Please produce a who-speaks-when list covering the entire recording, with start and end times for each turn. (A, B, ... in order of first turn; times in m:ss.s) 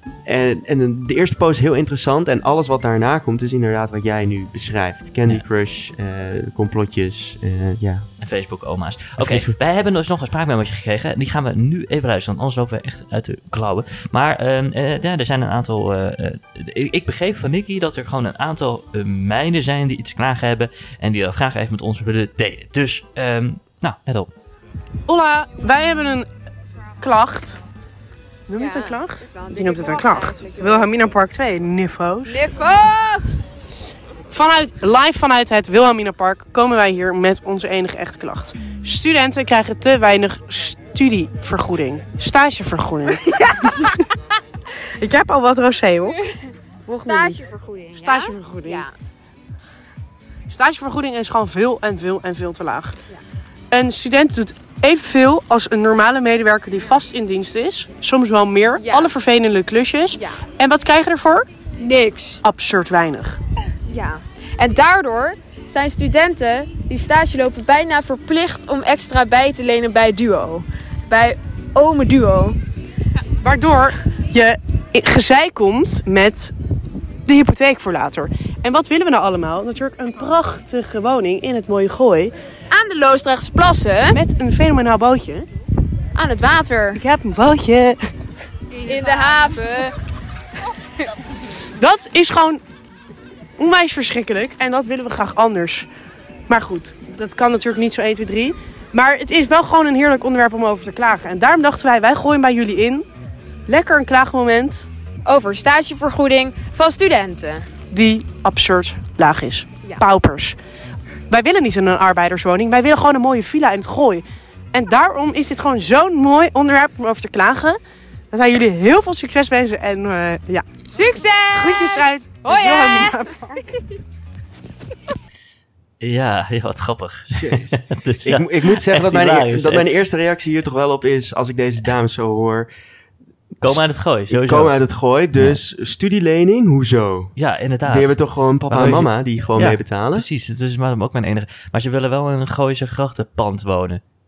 0:00.2-0:08.1 A
0:08.2-0:24.3 B
0:09.2-0:09.6 A
0:25.1-0:26.3 C
0:27.0-0:27.6 C
0:28.5-0:32.4 C
0:28.6-0:30.9 D
0:32.3-0:33.3 D
0:34.3-0:44.0 C
0:43.3-0:43.8 D
0:45.0-0:46.2 C
0:46.9-0:47.4 C
0:47.0-0:48.9 D
0:48.0-0:48.8 C
0:50.5-0:53.0 C
0:53.7-1:01.5 C
0:58.7-0:59.2 D
1:00.1-1:00.4 D
1:01.8-1:02.4 D
1:02.4-1:03.4 C
1:03.9-1:12.6 D
1:13.4-1:16.5 C
1:17.3-1:22.3 C
1:22.7-1:24.2 D
1:24.1-1:25.5 C
1:26.2-1:27.0 D
1:27.0-1:28.1 C
1:28.8-1:30.0 D
1:31.8-1:32.6 C
1:33.6-1:35.9 C
1:36.5-1:43.0 C
1:43.7-1:44.9 C
1:45.3-1:47.7 D
1:47.9-1:50.6 C
1:51.3-1:57.8 C
1:58.3-2:00.7 C
2:00.9-2:03.6 D
2:01.6-2:03.5 C
2:06.0-2:09.9 B
2:07.3-2:12.7 A
2:13.6-2:14.8 B
2:13.6-2:20.2 A
2:15.4-2:15.6 B
2:17.4-2:18.2 B
2:18.7-2:24.0 B